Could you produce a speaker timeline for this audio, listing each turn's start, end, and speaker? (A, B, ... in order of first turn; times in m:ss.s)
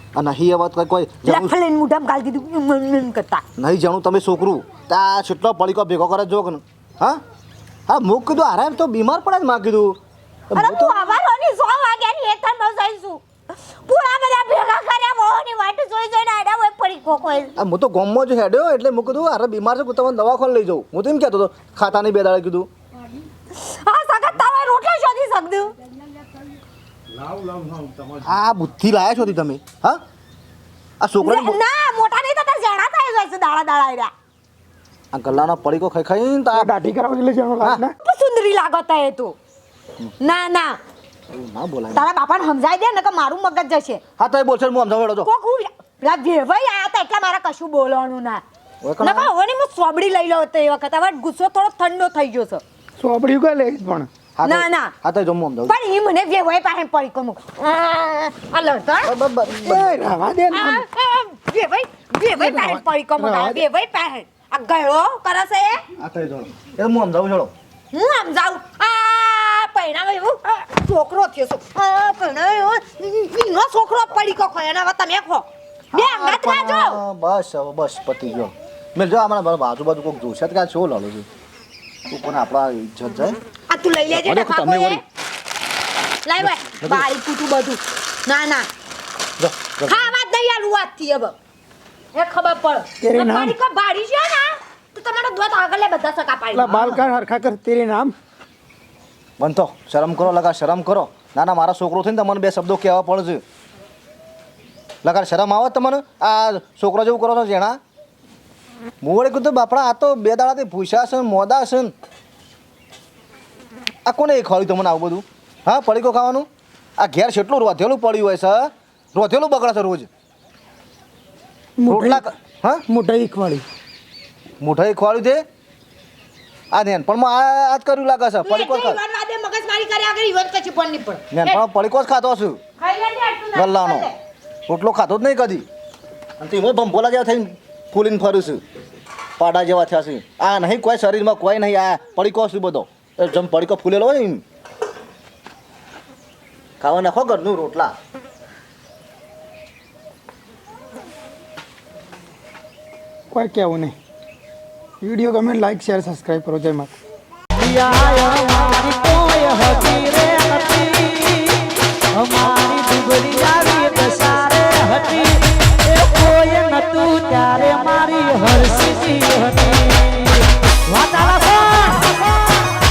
0:00.2-0:01.5 A
0:01.2-0:03.4 B
0:03.6-0:07.2 A
0:07.9-0:10.0 A
0:10.5-0:11.2 A
0:10.5-0:13.2 B
0:13.8-0:17.5 B
0:17.6-0:22.7 A
0:23.5-0:25.7 B
0:28.2-0:30.0 A
0:31.0-0:31.6 A
0:31.2-0:34.1 B
0:35.1-0:36.7 A
0:36.8-0:37.5 C
0:38.0-0:39.4 B
0:40.2-0:40.8 B
0:41.3-0:42.0 A
0:41.9-0:44.0 B
0:44.2-0:45.3 A
0:45.2-0:48.4 B
0:48.8-0:49.3 A
0:49.0-0:52.6 B
0:53.0-0:54.1 C
0:54.4-0:55.7 A
0:54.4-0:54.9 B
0:55.7-0:59.1 B
0:59.0-1:00.1 A
1:00.0-1:00.6 C
1:00.2-1:00.8 D
1:00.5-1:05.8 B
1:03.2-1:03.5 D
1:06.0-1:07.5 A
1:07.9-1:17.0 B
1:15.9-1:21.3 A
1:22.1-1:23.4 A
1:23.7-1:25.0 B
1:24.1-1:25.0 A
1:26.2-1:28.7 B
1:26.4-1:27.1 A
1:29.4-1:30.1 A
1:29.8-1:31.4 B
1:32.1-1:36.9 B
1:33.0-1:33.5 D
1:36.6-1:37.8 D
1:36.7-1:38.1 C
1:39.4-1:43.4 A
1:45.0-1:47.8 A
1:49.0-1:51.9 A
1:54.0-1:56.5 A
1:57.0-2:00.1 A
2:01.8-2:02.2 D
2:01.9-2:02.8 A
2:02.9-2:03.6 C
2:04.6-2:05.4 A
2:06.7-2:09.0 A
2:08.4-2:11.6 B
2:11.3-2:12.6 A
2:12.8-2:14.1 B
2:13.5-2:14.1 A
2:14.7-2:15.6 A
2:16.4-2:18.6 A
2:19.4-2:24.4 A
2:26.8-2:27.9 A
2:33.4-2:33.7 C
2:33.4-2:33.9 D
2:35.0-2:36.9 D
2:36.2-2:36.8 C
2:37.6-2:41.6 E
2:42.2-2:50.3 E
2:50.9-2:52.0 E